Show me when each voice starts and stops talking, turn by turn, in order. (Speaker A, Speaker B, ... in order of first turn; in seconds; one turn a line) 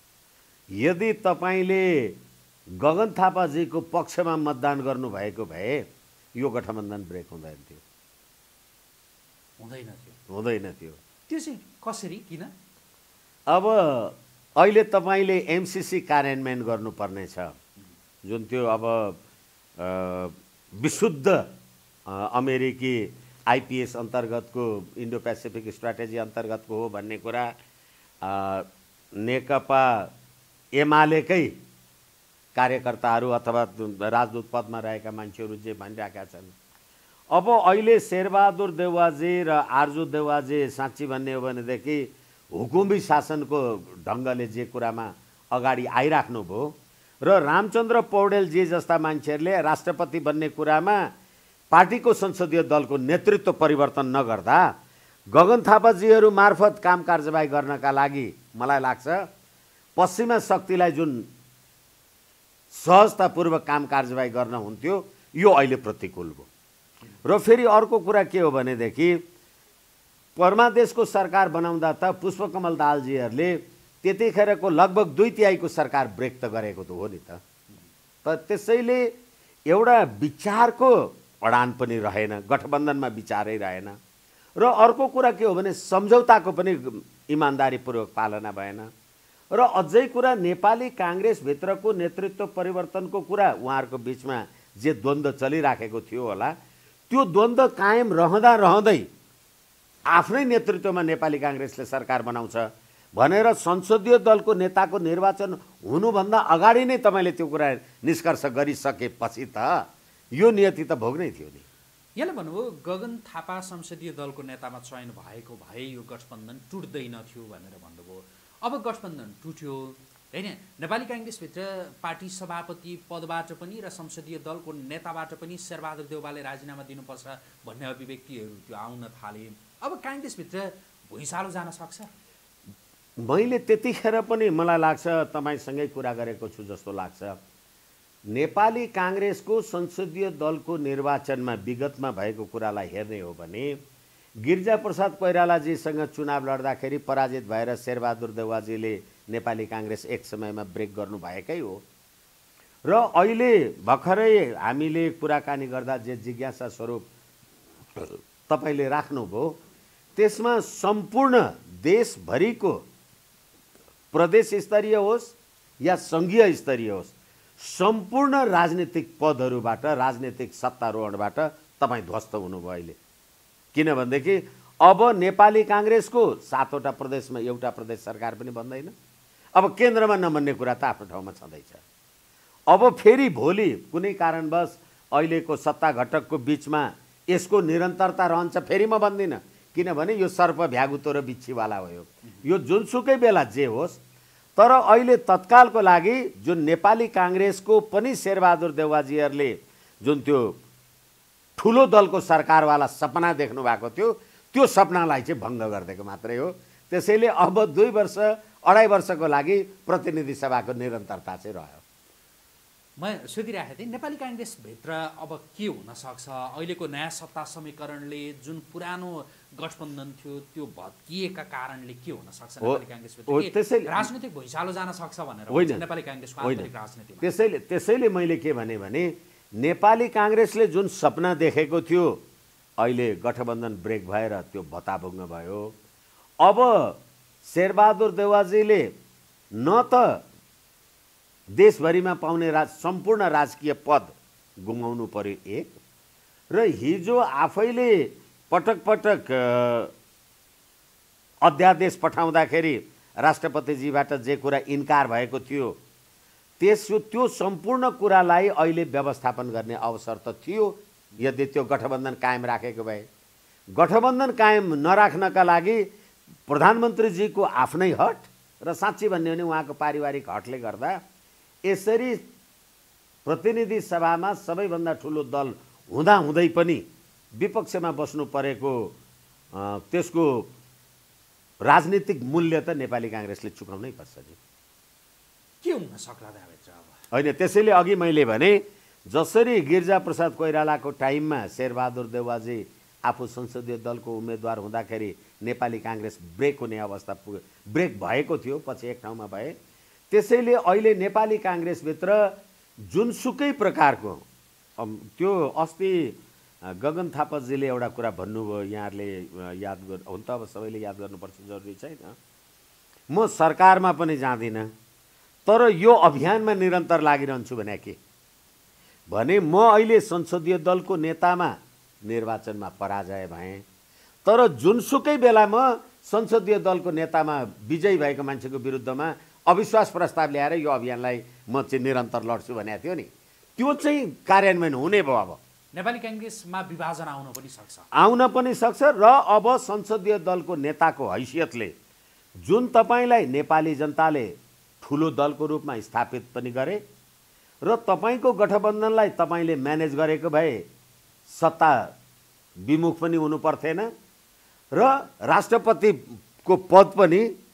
Speaker A: 0.8-2.2
Speaker A: 2.8-7.8
Speaker B: 9.6-10.2
Speaker A: 10.3-11.0
Speaker B: 11.3-12.5
Speaker A: 13.5-17.5
Speaker A: 18.2-19.2
Speaker A: 19.8-21.5
Speaker A: 22.1-27.5
Speaker A: 28.2-28.7
Speaker A: 29.2-30.1
Speaker A: 30.8-31.6
Speaker A: 32.5-36.5
Speaker A: 37.3-51.0
Speaker A: 51.7-54.7
Speaker A: 55.3-59.3
Speaker A: 60.0-61.3
Speaker A: 62.7-66.5
Speaker A: 67.2-69.2
Speaker A: 70.3-77.4
Speaker A: 78.2-79.1
Speaker A: 79.7-84.0
Speaker A: 84.6-88.9
Speaker A: 89.5-96.5
Speaker A: 97.1-99.1
Speaker A: 100.1-109.8
Speaker A: 110.3-111.6
Speaker B: 112.2-132.1
Speaker A: 133.2-137.4
Speaker A: 138.3-143.8
Speaker A: 144.4-151.8
Speaker A: 152.8-157.1
Speaker A: 157.9-159.6
Speaker A: 160.2-162.8
Speaker A: 164.1-173.0
Speaker A: 173.7-178.9
Speaker A: 179.5-181.8
Speaker A: 182.7-194.0
Speaker A: 194.6-200.6
Speaker A: 201.6-211.8
Speaker B: 213.0-227.3
Speaker A: 222.6-224.1
Speaker A: 225.5-225.8
Speaker A: 226.4-226.7
Speaker A: 227.2-232.2
Speaker A: 232.8-235.7
Speaker A: 236.4-238.9
Speaker A: 239.6-240.2
Speaker A: 241.6-245.7
Speaker A: 246.5-249.9
Speaker A: 251.4-255.8
Speaker A: 256.6-263.1
Speaker A: 263.7-265.9
Speaker A: 266.5-271.0
Speaker A: 271.6-272.3
Speaker A: 273.2-278.9
Speaker A: 279.5-280.5
Speaker A: 281.6-284.4
Speaker B: 285.6-287.0
Speaker A: 287.1-299.5
Speaker A: 300.1-302.4
Speaker A: 302.9-304.2
Speaker A: 304.8-312.2
Speaker A: 313.1-314.7
Speaker A: 315.4-318.0
Speaker A: 319.1-323.6
Speaker A: 324.2-335.4
Speaker B: 335.7-337.9
Speaker A: 337.9-341.7
Speaker A: 342.4-346.8
Speaker A: 347.6-350.6
Speaker A: 351.3-351.9
Speaker A: 352.6-353.9
Speaker A: 354.7-357.3